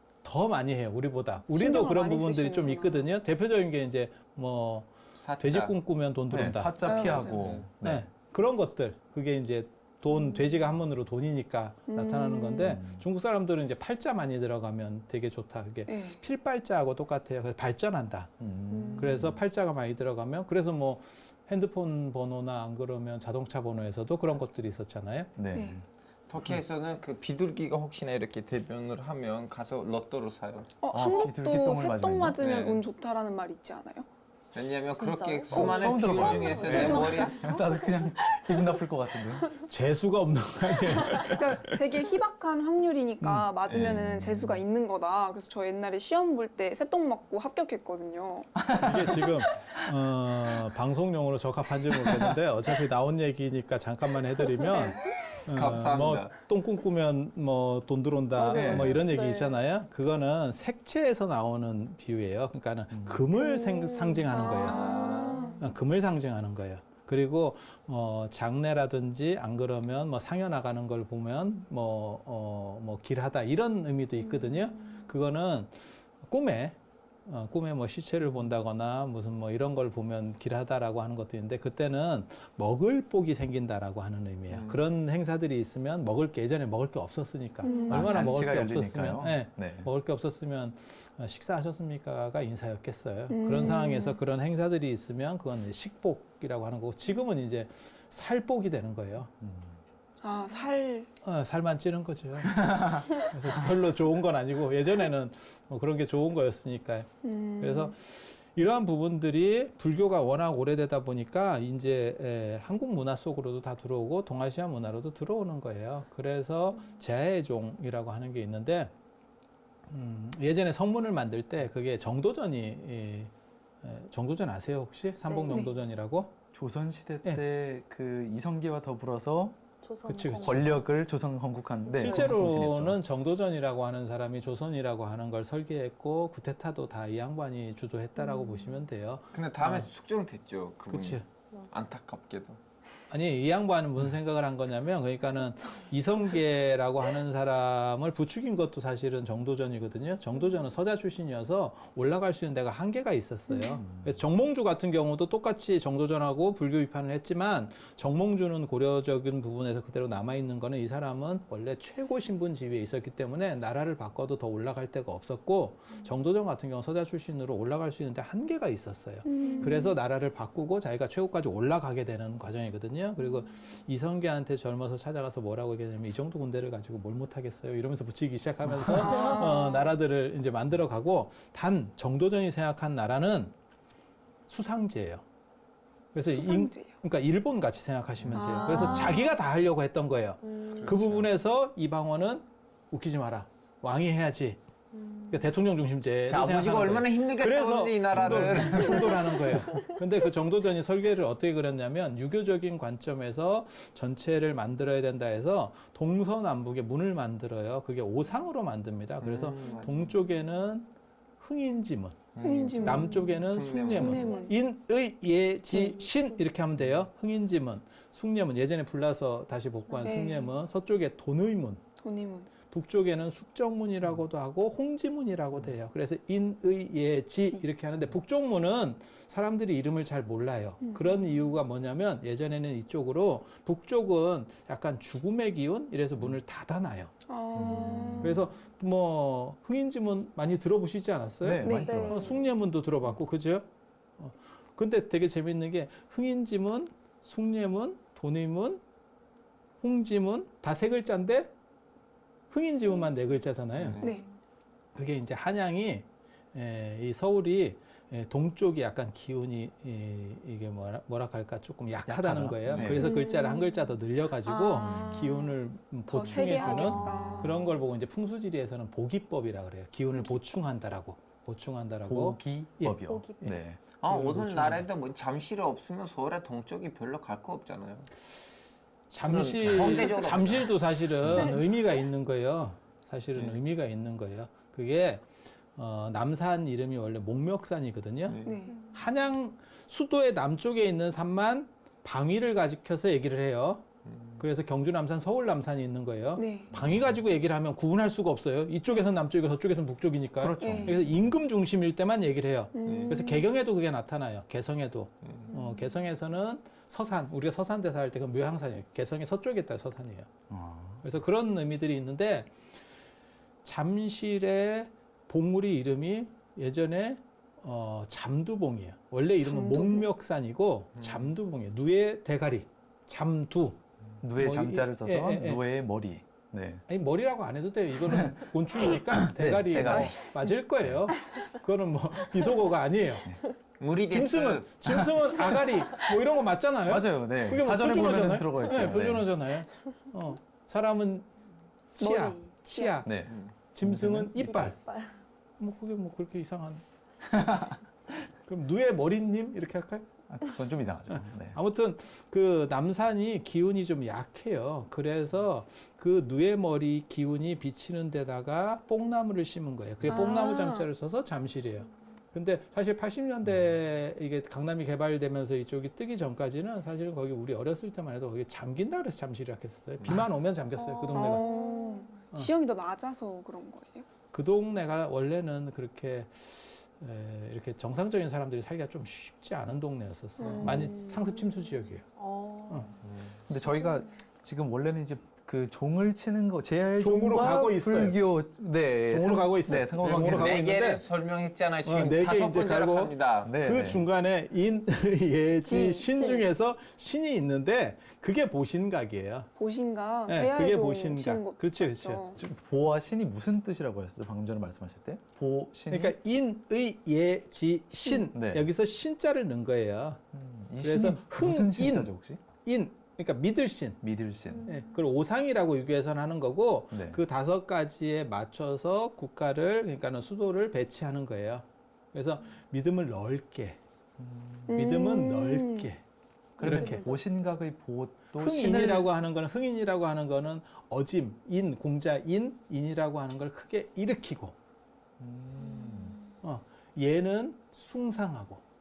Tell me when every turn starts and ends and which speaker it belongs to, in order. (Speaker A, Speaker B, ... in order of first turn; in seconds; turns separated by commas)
Speaker A: 0.2-18.3, Speaker B: 1.5-3.1, Speaker C: 5.2-5.8, Speaker D: 6.3-8.1, Speaker B: 6.8-7.6, Speaker C: 7.1-7.7, Speaker B: 10.1-10.4, Speaker B: 11.9-12.8, Speaker D: 12.6-13.0, Speaker B: 15.9-16.2, Speaker D: 18.4-19.4, Speaker B: 18.7-19.2, Speaker A: 18.9-25.4, Speaker D: 25.4-25.9, Speaker B: 25.5-25.8, Speaker C: 26.3-30.7, Speaker B: 30.8-34.1, Speaker D: 30.9-32.4, Speaker C: 32.4-32.8, Speaker C: 34.5-37.6, Speaker E: 34.9-37.3, Speaker D: 35.5-39.6, Speaker B: 35.9-37.7, Speaker E: 38.0-38.7, Speaker A: 39.7-41.8, Speaker B: 41.1-48.6, Speaker A: 43.2-43.5, Speaker C: 43.7-44.1, Speaker D: 43.7-44.6, Speaker D: 48.6-49.9, Speaker A: 48.8-65.0, Speaker D: 52.0-52.4, Speaker C: 55.5-56.3, Speaker E: 58.3-59.6, Speaker D: 58.5-59.0, Speaker D: 62.9-63.3, Speaker E: 63.4-65.6, Speaker B: 64.3-65.6, Speaker C: 64.4-65.5, Speaker A: 65.6-99.3, Speaker C: 84.5-84.8, Speaker B: 87.6-88.4, Speaker E: 87.6-87.9, Speaker D: 87.9-89.9, Speaker B: 93.3-94.2, Speaker D: 99.4-99.8, Speaker B: 100.2-101.1, Speaker A: 101.2-107.1, Speaker D: 102.6-103.1, Speaker B: 107.2-107.9, Speaker A: 107.6-118.9, Speaker A: 119.9-123.3, Speaker A: 123.8-126.3, Speaker E: 125.3-125.7, Speaker D: 126.5-129.6, Speaker E: 129.8-130.8, Speaker A: 130.1-130.8, Speaker D: 130.3-133.0, Speaker A: 131.9-139.9, Speaker E: 132.0-132.3, Speaker C: 139.3-142.6, Speaker A: 140.9-141.2, Speaker A: 143.1-183.5, Speaker E: 145.6-145.9, Speaker D: 153.8-154.2, Speaker B: 169.3-170.0, Speaker E: 169.4-169.8, Speaker E: 179.0-179.6, Speaker B: 179.0-179.8, Speaker A: 184.5-185.2, Speaker A: 186.1-194.6, Speaker B: 186.3-186.9, Speaker B: 188.3-189.3, Speaker E: 188.4-189.3, Speaker E: 190.5-190.9, Speaker C: 190.7-191.3, Speaker E: 195.0-195.4, Speaker A: 195.3-221.8, Speaker C: 196.3-199.6, Speaker C: 209.2-210.1, Speaker C: 212.3-214.5, Speaker B: 212.4-214.6, Speaker E: 215.7-216.3, Speaker B: 220.0-220.5, Speaker B: 222.0-222.5, Speaker A: 222.7-243.7, Speaker B: 230.8-231.4, Speaker B: 237.3-238.4, Speaker D: 237.6-238.4, Speaker D: 241.4-242.4, Speaker B: 241.6-242.1, Speaker E: 241.8-242.4, Speaker A: 244.2-248.8, Speaker A: 249.8-251.5, Speaker A: 252.5-254.1, Speaker C: 253.8-254.1, Speaker A: 254.9-273.6, Speaker D: 262.1-263.1, Speaker C: 262.7-263.0, Speaker B: 263.0-263.9, Speaker B: 264.4-265.6, Speaker B: 266.1-267.7, Speaker E: 266.3-267.6, Speaker D: 272.1-273.8, Speaker E: 273.1-273.4, Speaker C: 274.0-278.1, Speaker A: 274.1-274.9, Speaker A: 279.1-285.2, Speaker C: 279.2-281.4, Speaker A: 285.8-293.9, Speaker C: 288.3-288.7, Speaker B: 288.4-288.8, Speaker C: 294.1-294.4, Speaker A: 294.4-310.3, Speaker B: 296.4-296.7, Speaker D: 300.4-301.2, Speaker B: 300.6-301.1, Speaker B: 302.7-303.5, Speaker C: 302.8-303.2, Speaker C: 305.2-305.5, Speaker D: 310.5-311.1, Speaker A: 311.0-312.5, Speaker A: 313.6-323.8, Speaker B: 319.4-320.1, Speaker C: 320.9-321.3, Speaker D: 324.2-326.9, Speaker A: 324.4-325.6, Speaker A: 326.9-333.3, Speaker D: 328.1-328.4, Speaker D: 329.1-331.1, Speaker C: 333.8-335.6, Speaker A: 334.1-341.3, Speaker D: 336.9-339.3, Speaker A: 341.9-344.8, Speaker B: 342.0-343.0, Speaker D: 343.0-344.7, Speaker E: 344.6-345.1, Speaker A: 345.6-346.8, Speaker D: 347.3-347.8, Speaker A: 348.5-350.2, Speaker D: 350.3-351.6, Speaker A: 351.1-371.5, Speaker B: 360.1-360.9, Speaker E: 370.9-372.2, Speaker B: 371.1-374.1, Speaker A: 374.3-382.1, Speaker B: 380.4-381.2, Speaker D: 380.6-380.9, Speaker E: 382.2-382.9, Speaker C: 383.0-383.4, Speaker D: 383.5-390.6, Speaker A: 387.0-388.2, Speaker A: 389.1-391.0, Speaker C: 390.0-393.5, Speaker A: 391.9-399.5, Speaker D: 393.4-394.0, Speaker B: 395.7-396.4, Speaker B: 399.6-402.4, Speaker A: 400.3-402.2, Speaker D: 402.4-406.1, Speaker A: 405.9-410.2, Speaker B: 408.0-408.3, Speaker D: 408.3-408.7, Speaker D: 410.3-412.4, Speaker A: 410.8-414.0, Speaker D: 414.0-414.7, Speaker A: 414.6-423.8, Speaker D: 416.9-417.2, Speaker D: 424.2-424.8, Speaker A: 424.7-426.0, Speaker B: 424.7-425.9, Speaker D: 426.6-429.1, Speaker A: 426.6-427.0, Speaker E: 426.6-427.2, Speaker A: 428.4-434.6, Speaker D: 435.2-436.2, Speaker A: 436.4-438.6